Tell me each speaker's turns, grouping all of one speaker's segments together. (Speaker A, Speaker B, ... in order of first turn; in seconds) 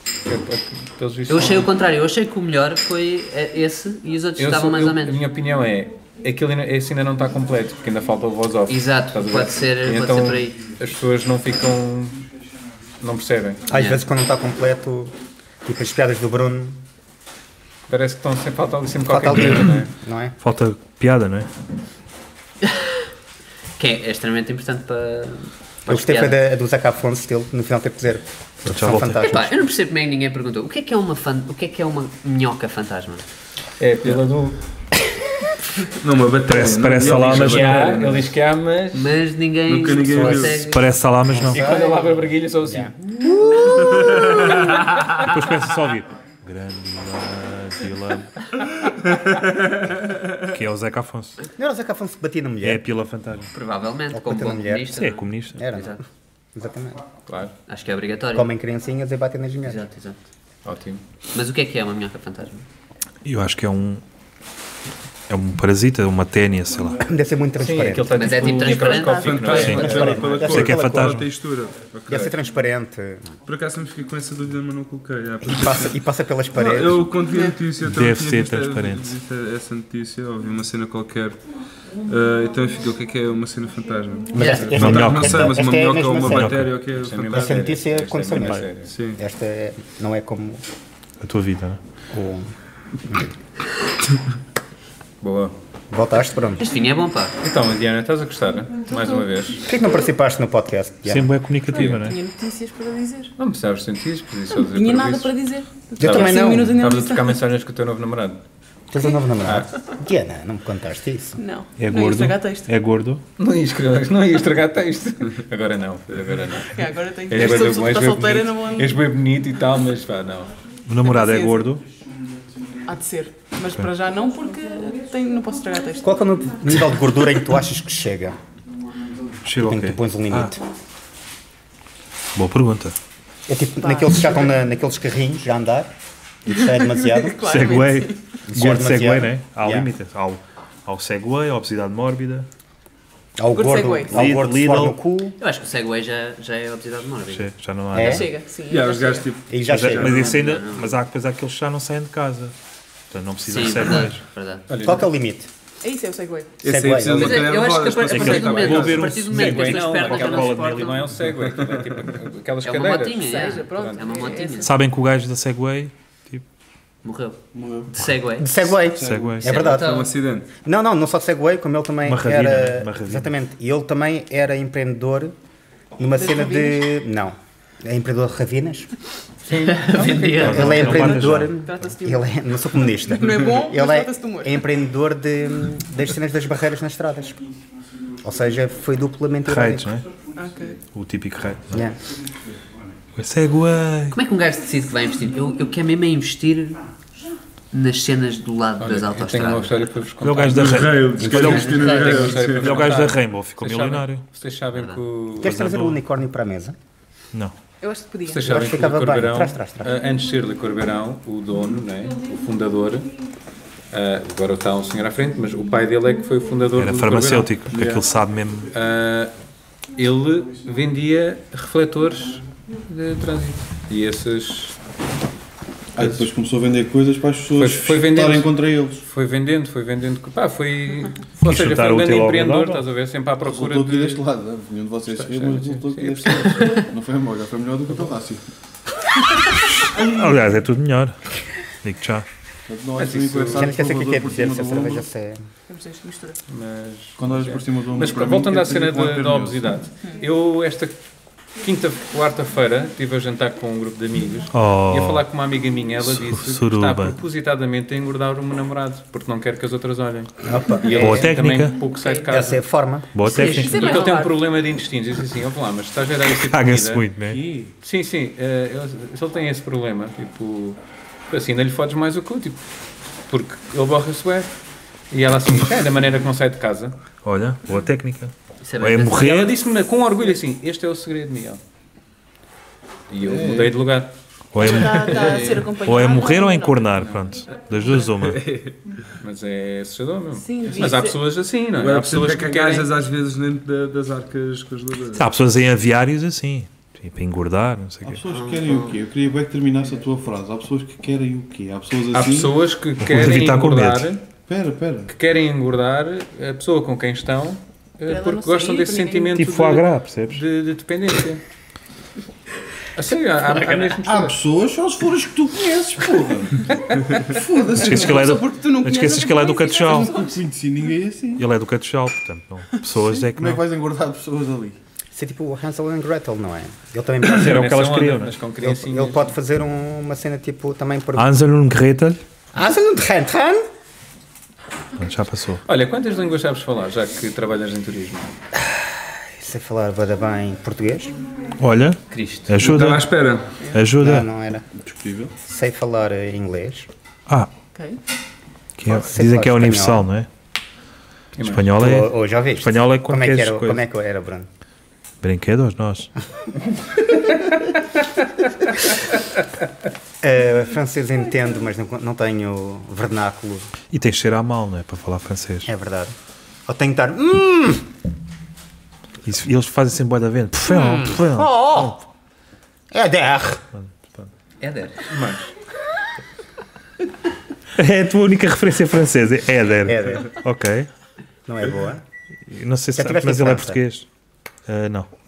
Speaker A: 0.2-1.7, 4.4-12.2, 13.0-13.6, 17.9-19.9, 33.8-34.6, 37.1-39.1, 41.5-43.3, 44.3-44.7, 57.3-57.5, 60.6-61.0, 67.6-70.4, 72.1-72.3, 86.9-88.9, 95.2-95.5, 97.4-99.6, 101.7-102.0, 103.4-105.4, 106.0-108.4, 113.4-116.7, 117.3-120.5, 154.7-155.1, 159.2-164.2, 179.5-180.3, 198.8-205.6, 208.2-213.1, 213.9-217.5, 218.7-219.3, 219.9-224.7, 227.6-234.2, 235.1-236.8, 243.0-243.7, 246.5-250.9, 251.6-262.6, 263.7-267.0, 267.8-270.8, 271.3-272.6, 273.3-274.5, 275.1-276.9, 279.2-281.6, 283.1-284.1, 286.9-287.4, 289.2-293.0, 302.1-304.2, 305.1-311.4, 312.9-314.4, 316.8-317.2, 327.3-329.3, 335.6-338.3, 351.4-351.7, 375.1-375.5
Speaker B: 1.3-5.2, 8.7-10.6, 13.7-14.0, 23.8-26.4, 29.2-33.2, 38.9-40.8, 53.5-56.0, 57.7-58.5, 59.6-60.2, 61.3-62.6, 68.1-70.1, 96.6-97.3, 145.4-147.5, 150.2-150.9, 153.4-154.7, 157.2-161.0, 162.6-164.7, 167.0-167.4, 167.9-168.5, 169.4-170.1, 179.7-180.9, 194.1-196.8, 197.7-199.8, 201.3-202.4, 204.7-205.0, 263.3-264.1, 278.6-279.4, 298.3-298.9, 342.1-342.5, 374.6-375.0
Speaker C: 13.7-15.1, 15.6-16.8, 19.1-20.3, 25.9-29.6, 41.3-42.0, 42.6-44.2, 51.6-52.8, 54.1-55.0, 55.5-55.9, 56.5-57.0, 58.3-59.8, 67.0-68.3, 69.7-70.8, 72.1-73.2, 75.4-77.1, 84.3-86.7, 87.3-90.6, 92.1-92.5, 95.9-96.7, 99.7-101.3, 106.0-106.8, 108.9-111.4, 126.0-128.3, 129.6-130.6, 133.5-135.9, 136.4-137.8, 138.5-139.9, 143.4-145.4, 147.9-148.3, 149.5-150.3, 154.8-155.5, 156.6-157.4, 168.4-169.9, 170.6-175.3, 176.0-178.9, 180.4-187.4, 188.2-189.9, 191.7-192.0, 201.2-201.6, 205.4-206.7, 208.4-209.9, 243.5-245.4, 260.4-261.3, 262.3-263.1, 325.1-327.6, 328.6-331.3, 332.5-333.6, 338.6-341.1, 344.0-344.6, 345.4-346.9, 348.9-350.1, 351.8-354.5, 360.2-363.7, 365.6-366.1, 366.7-367.8, 370.7-372.0, 372.9-373.6, 379.9-380.2, 381.5-382.0, 382.9-383.8
Speaker D: 19.3-19.8, 20.4-21.5, 28.7-29.2, 36.5-37.9, 40.2-41.6, 45.2-48.3, 50.4-51.4, 52.6-53.5, 54.9-55.6, 63.2-64.0, 65.3-67.0, 69.5-69.8, 70.4-71.3, 77.8-79.2, 84.7-85.6, 86.3-86.7, 88.3-88.8, 91.2-91.8, 101.1-102.2, 111.8-113.2, 120.9-121.8, 129.4-130.5, 132.3-132.9, 137.5-142.5, 144.1-144.9, 147.3-148.3, 149.7-152.5, 153.1-154.2, 158.1-161.1, 164.6-166.4, 169.0-169.6, 172.0-173.3, 180.4-181.5, 189.4-190.1, 190.9-191.8, 193.2-194.2, 200.2-201.8, 202.6-204.2, 205.4-206.0, 216.7-218.7, 226.0-226.2, 231.4-232.9, 239.5-241.2, 241.8-242.2, 254.5-255.2, 256.0-257.2, 260.9-261.9, 263.1-263.9, 266.3-267.5, 277.2-279.5, 284.5-288.4, 295.1-298.2, 303.0-304.1, 309.3-310.4, 317.7-320.2, 321.4-323.6, 327.3-328.3, 331.2-332.2, 335.0-335.6, 341.6-343.1, 343.7-344.3, 348.8-350.3, 351.4-353.8, 355.2-356.1, 363.9-365.7, 369.2-372.0, 373.7-374.3, 377.8-380.9, 382.5-384.1, 384.6-385.1
Speaker E: 36.0-38.3, 39.7-40.6, 69.3-72.3, 73.5-76.0, 76.5-81.4, 82.0-87.6, 88.8-89.2, 148.7-150.7, 156.6-159.1, 161.4-162.0, 168.7-170.5, 200.6-202.8, 288.2-288.8, 291.7-295.2, 342.6-343.5
Speaker F: 68.4-69.8, 101.7-103.3, 104.5-107.4, 111.3-112.7, 116.7-119.0, 121.0-121.7, 122.8-126.1, 133.8-134.5, 136.9-138.1, 143.5-144.2, 148.0-149.3, 155.8-156.5, 163.2-164.7, 176.1-176.8, 180.1-181.1, 181.6-182.2, 183.1-184.6, 190.3-190.8, 207.8-208.4, 245.7-246.4, 262.0-262.3, 263.4-264.3, 284.6-286.8, 290.3-291.2, 308.1-309.6, 318.0-320.4
Speaker G: 167.5-167.9, 217.7-218.0, 225.9-229.0, 233.4-238.4, 239.9-240.4, 242.7-245.1, 247.2-249.6, 267.3-267.7, 283.2-283.8, 284.6-285.7, 298.0-302.6, 304.5-305.1, 314.0-316.6, 317.3-318.6, 319.9-321.4, 323.3-324.8, 344.8-345.3